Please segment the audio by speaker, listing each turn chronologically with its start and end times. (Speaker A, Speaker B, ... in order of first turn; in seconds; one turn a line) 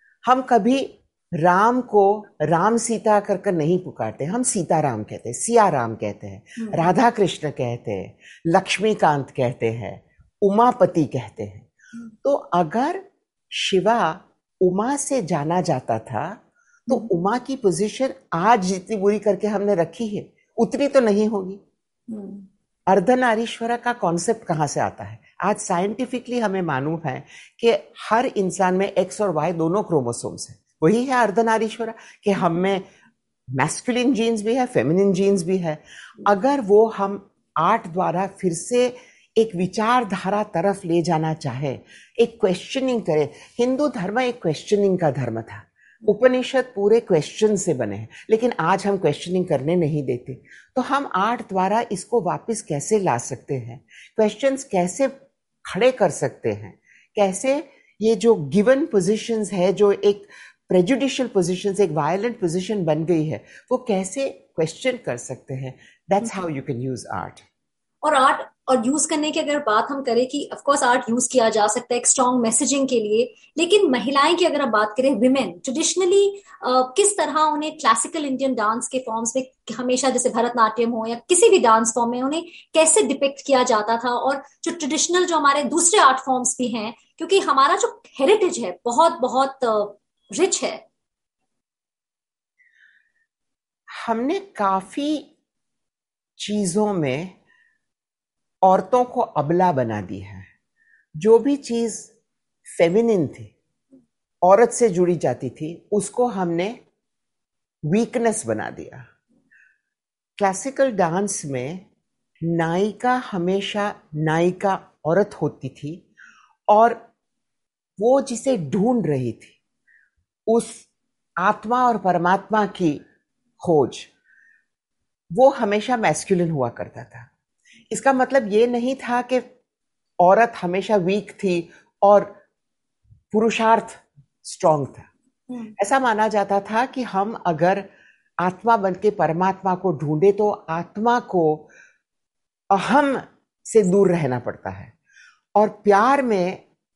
Speaker A: 0.2-11.7
Speaker B: 6.6-6.9
Speaker A: 12.2-13.0
Speaker A: 13.5-21.6
Speaker B: 22.1-22.5
Speaker A: 22.9-32.8
Speaker A: 33.6-55.1
Speaker A: 55.6-67.4
Speaker B: 68.0-90.8
Speaker A: 94.0-95.3
Speaker A: 96.4-97.3
Speaker A: 98.6-100.5
Speaker A: 101.2-102.1
Speaker A: 102.8-103.5
Speaker A: 104.4-106.8
Speaker A: 107.9-109.0
Speaker A: 110.4-111.8
Speaker A: 112.5-116.0
Speaker A: 116.7-117.0
Speaker A: 118.0-119.6
Speaker A: 120.5-120.8
Speaker A: 121.4-123.0
Speaker A: 123.6-124.1
Speaker A: 125.3-127.3
Speaker A: 127.9-129.4
Speaker A: 130.2-132.3
Speaker A: 133.3-135.1
Speaker B: 135.5-135.7
Speaker A: 135.8-137.8
Speaker A: 138.4-141.7
Speaker A: 142.7-144.9
Speaker A: 145.6-146.6